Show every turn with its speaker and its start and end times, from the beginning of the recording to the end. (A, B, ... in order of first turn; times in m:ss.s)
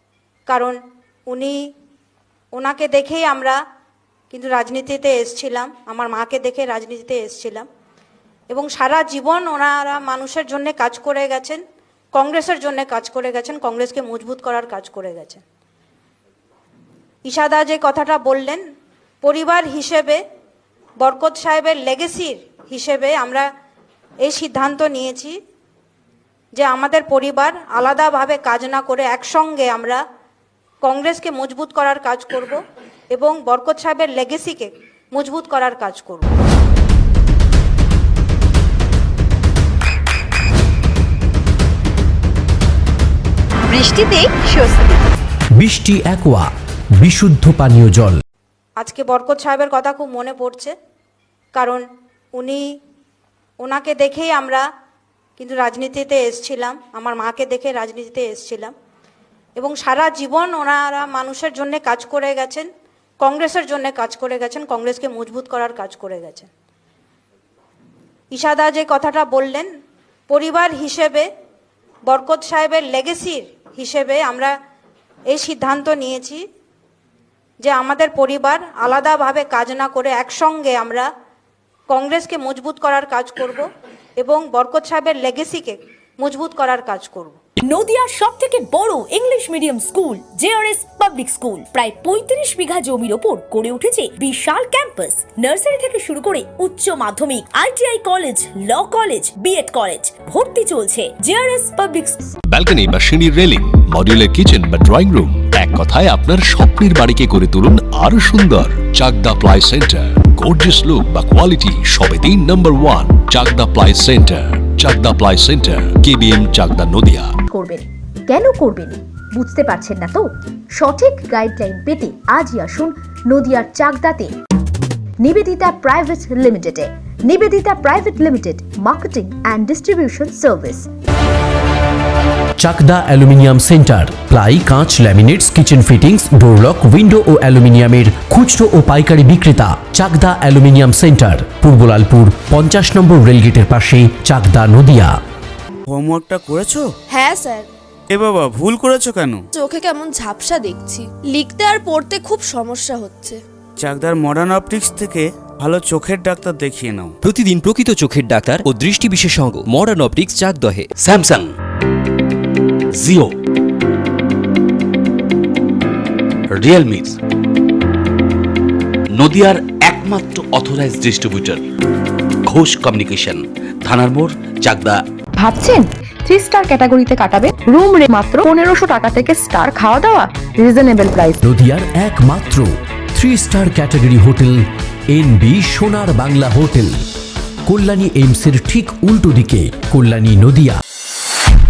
0:00.5-0:00.8 A
0:01.3-0:01.6 A
0:02.5-0:03.6 A
0:04.3-0:07.7 A
0:08.5-0:11.6 A
0:12.1-0:15.4 A
0:17.3-0:18.6 A
0:19.2-0:20.2 A
0:21.0-0:23.5 A
0:24.2-0:25.4 A
0:26.6-0:30.0 A
0:30.8-0:32.6 A
0:33.1-0:36.3 A
0:45.6-0:46.5 B
0:47.0-0:48.2 B
0:48.8-0:50.7 A
0:51.6-0:51.8 A
0:52.4-0:52.6 A
0:53.6-0:54.6 A
0:55.4-0:58.7 A
0:59.6-1:02.7 A
1:03.2-1:06.5 A
1:08.3-1:09.7 A
1:10.3-1:11.3 A
1:12.1-1:14.5 A
1:15.3-1:16.4 A
1:17.6-1:21.1 A
1:21.9-1:27.4 A
1:27.6-1:42.2 C
1:42.5-1:57.3 D
1:57.5-2:00.2 E
2:00.8-2:04.3 E
2:05.2-2:10.9 E
2:12.6-2:25.1 B
2:25.9-2:26.9 F
2:27.1-2:27.7 G
2:28.1-2:29.4 F
2:29.5-2:33.4 G
2:33.8-2:37.1 F
2:37.2-2:40.9 H
2:41.0-2:41.5 I
2:43.0-2:43.3 I
2:46.5-2:47.2 I
2:49.2-2:51.7 I
2:52.5-2:55.0 I
2:55.4-3:01.4 J
3:01.4-3:06.9 B
3:07.7-3:10.8 B